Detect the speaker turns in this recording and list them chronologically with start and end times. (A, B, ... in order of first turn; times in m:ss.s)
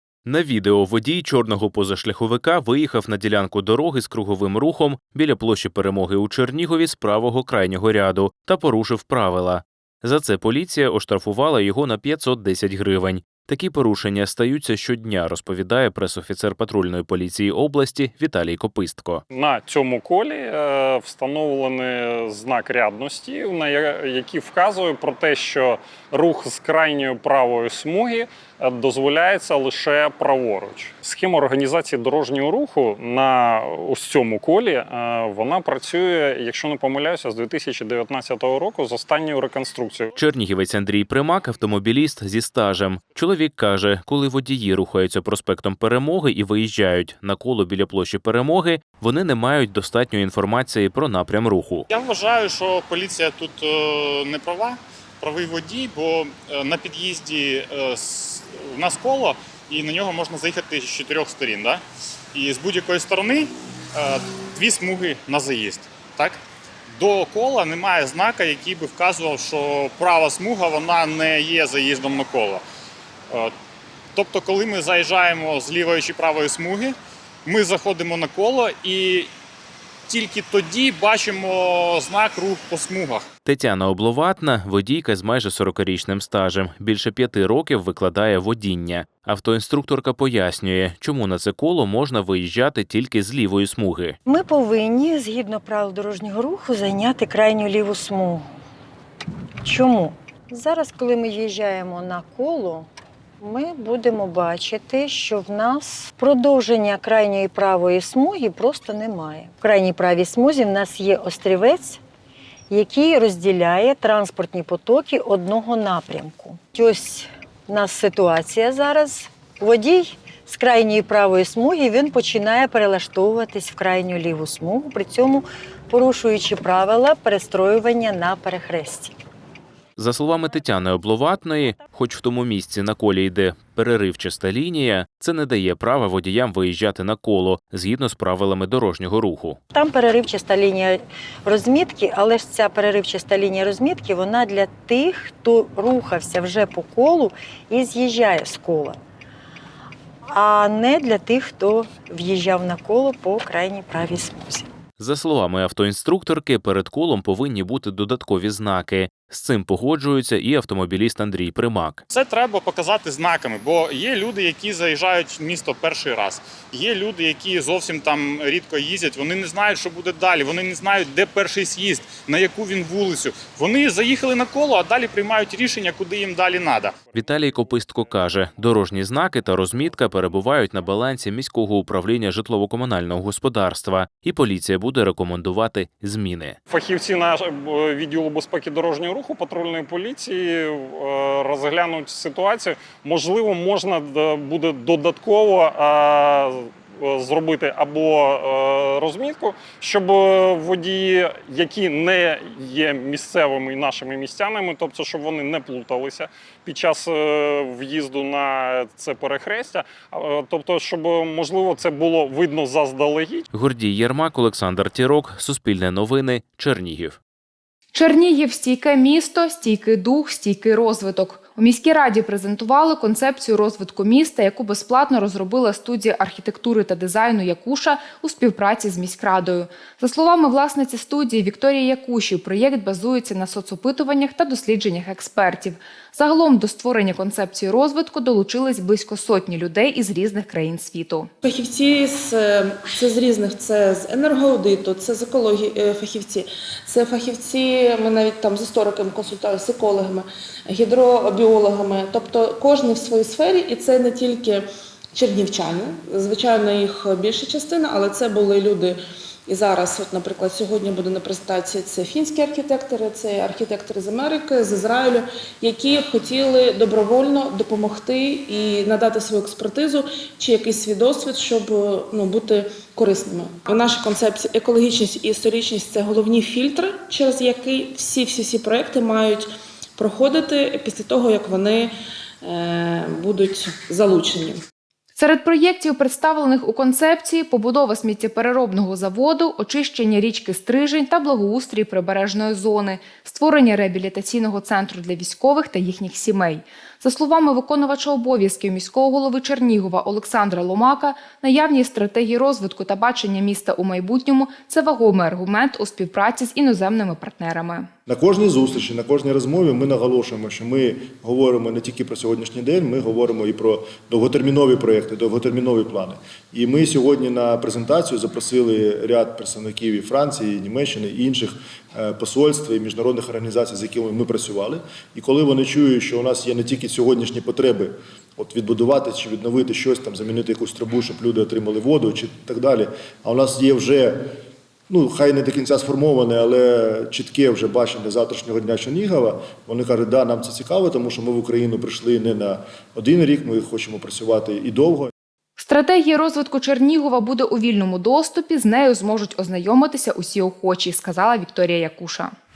0:00.2-0:19.2 A
0:19.3-0:40.1 B
0:40.2-0:51.9 A
0:51.9-1:01.8 C
1:02.3-1:06.4 C
1:07.0-1:12.6 C
1:14.2-1:16.9 C
1:17.5-1:19.3 C
1:20.1-1:23.2 C
1:23.4-1:34.2 A
1:34.2-1:38.5 D
1:39.6-1:42.9 D
1:43.4-1:52.0 D
1:52.7-2:09.2 D
2:10.0-2:19.6 A
2:19.7-2:29.0 D
2:30.3-2:34.7 D
2:35.0-2:42.0 A
2:42.1-2:57.0 C
2:57.1-2:57.6 B
2:57.1-3:06.6 A
3:06.7-3:33.5 B
3:33.5-3:37.2 A
3:37.9-4:01.3 E
4:01.4-4:41.9 F
4:42.4-4:44.6 F
4:45.2-5:07.9 E
5:08.1-5:34.2 G
5:34.9-5:45.1 G
5:45.6-5:52.3 E